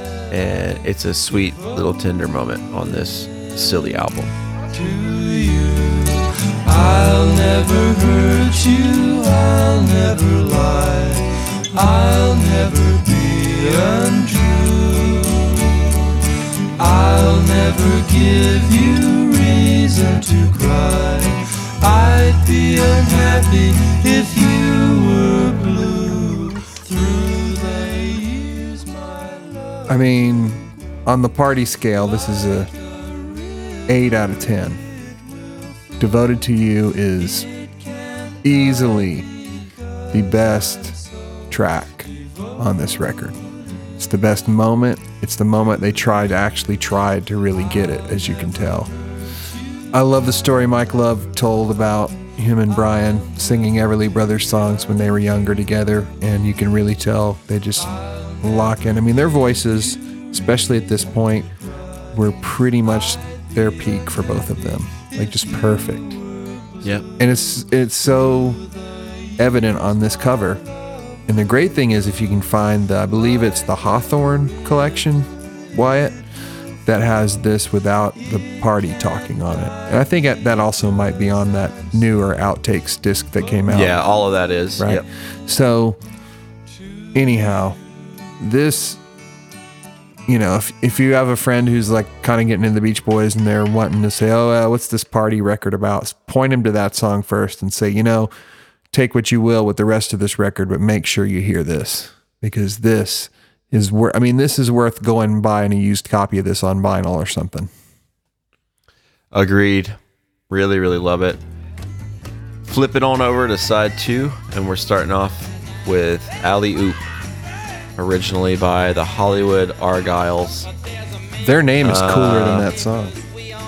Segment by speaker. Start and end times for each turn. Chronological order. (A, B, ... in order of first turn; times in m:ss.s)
0:00.3-0:04.3 A
0:04.7-0:16.0 B
0:16.8-0:29.9 B
0:29.9-0:32.7 C
0:33.9-0:34.8 C
0:36.0-0:37.5 C
0:38.4-0:39.3 C
0:40.1-0:43.4 C
0:44.0-0:48.9 C
0:49.9-1:01.5 C
1:02.1-1:06.2 C
1:07.2-1:08.6 C
1:09.4-1:10.6 C
1:11.3-1:16.2 C
1:16.8-1:24.0 C
1:23.7-1:25.0 A
1:24.8-1:26.0 C
1:27.1-1:27.8 C
1:28.4-1:29.0 C
1:30.3-1:38.3 C
1:38.9-1:47.7 C
1:49.3-1:50.0 A
1:50.5-1:51.4 A
1:52.7-1:57.1 A
1:58.0-2:00.7 A
2:01.4-2:03.2 C
2:01.8-2:02.7 A